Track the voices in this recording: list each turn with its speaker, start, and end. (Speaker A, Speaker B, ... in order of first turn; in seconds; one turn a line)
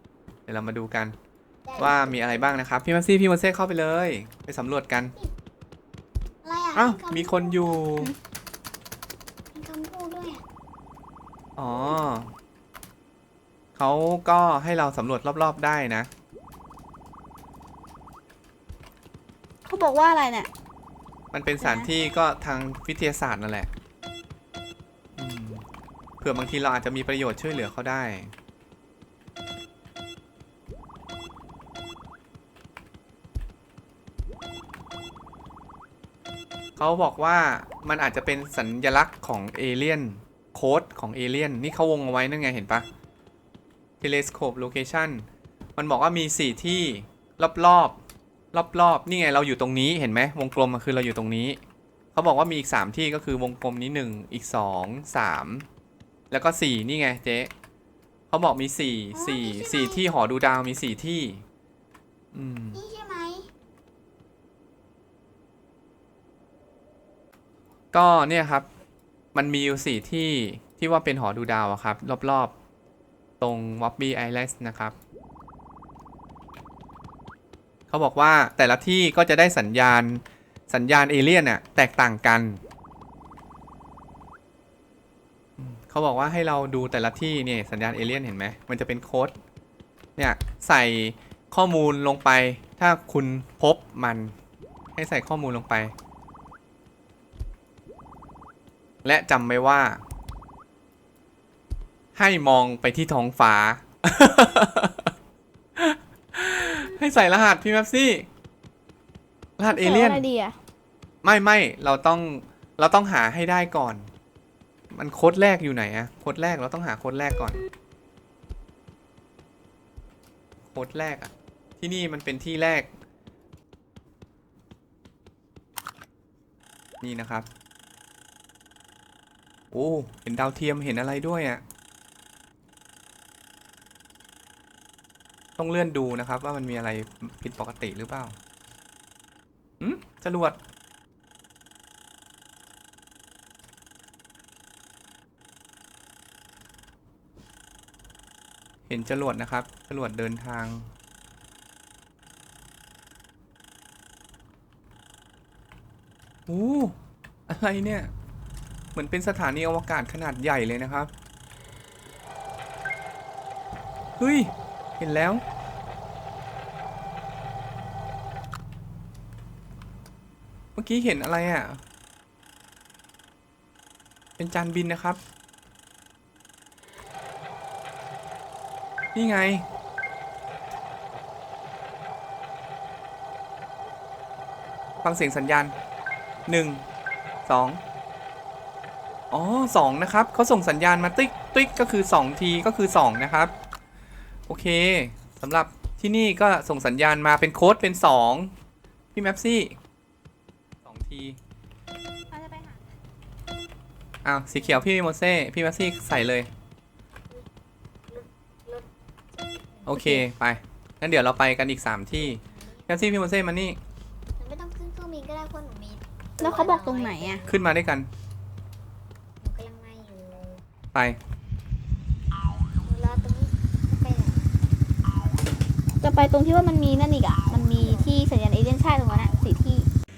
Speaker A: 0.5-1.1
Speaker B: 1.7-2.6
Speaker A: 1.8-5.1
Speaker B: 6.4-7.9
Speaker A: 6.8-8.1
Speaker B: 9.5-10.4
Speaker A: 11.6-12.3
Speaker A: 13.8-16.1
Speaker C: 19.7-20.5
Speaker A: 21.3-23.7
Speaker C: 21.6-21.9
Speaker A: 25.2-25.6
Speaker A: 26.2-28.3
Speaker A: 36.8-42.9
Speaker A: 44.0-45.2
Speaker A: 45.8-48.0
Speaker A: 48.5-51.6
Speaker A: 52.1-55.7
Speaker A: 56.3-57.5
Speaker A: 58.3-61.4
Speaker B: 59.1-60.0
Speaker A: 62.3-62.8
Speaker B: 62.7-63.5
Speaker A: 67.9-68.7
Speaker A: 69.3-72.5
Speaker A: 73.4-75.0
Speaker A: 77.9-82.6
Speaker A: 85.6-89.3
Speaker A: 90.2-94.3
Speaker A: 95.0-95.9
Speaker A: 99.0-100.0
Speaker A: 102.2-105.1
Speaker A: 105.8-108.3
Speaker A: 109.6-110.3
Speaker C: 109.7-110.6
Speaker A: 111.2-114.1
Speaker A: 114.9-117.6
Speaker A: 120.7-122.9
Speaker A: 127.0-127.5
Speaker A: 129.7-131.6
Speaker A: 135.6-138.3
Speaker A: 139.8-140.6
Speaker A: 148.9-150.9
Speaker A: 156.5-156.9
Speaker A: 157.5-158.1
Speaker A: 158.9-161.1
Speaker A: 164.2-165.4
Speaker A: 170.8-171.8
Speaker A: 174.4-175.2
Speaker A: 179.2-179.7
Speaker A: 185.0-185.8
Speaker A: 186.5-186.8
Speaker A: 187.5-187.8
Speaker A: 189.3-193.5
Speaker A: 194.5-198.5
Speaker A: 199.2-199.8
Speaker A: 200.8-201.4
Speaker C: 202.3-202.8
Speaker A: 204.2-206.5
Speaker B: 208.1-208.9
Speaker B: 209.6-210.0
Speaker A: 209.9-213.8
Speaker C: 209.9-210.2
Speaker B: 212.2-213.0
Speaker B: 214.4-217.5
Speaker C: 216.4-217.5
Speaker A: 217.5-218.1
Speaker B: 219.4-220.6
Speaker A: 220.9-221.2
Speaker B: 222.8-224.6
Speaker C: 226.0-229.9
Speaker B: 227.5-228.1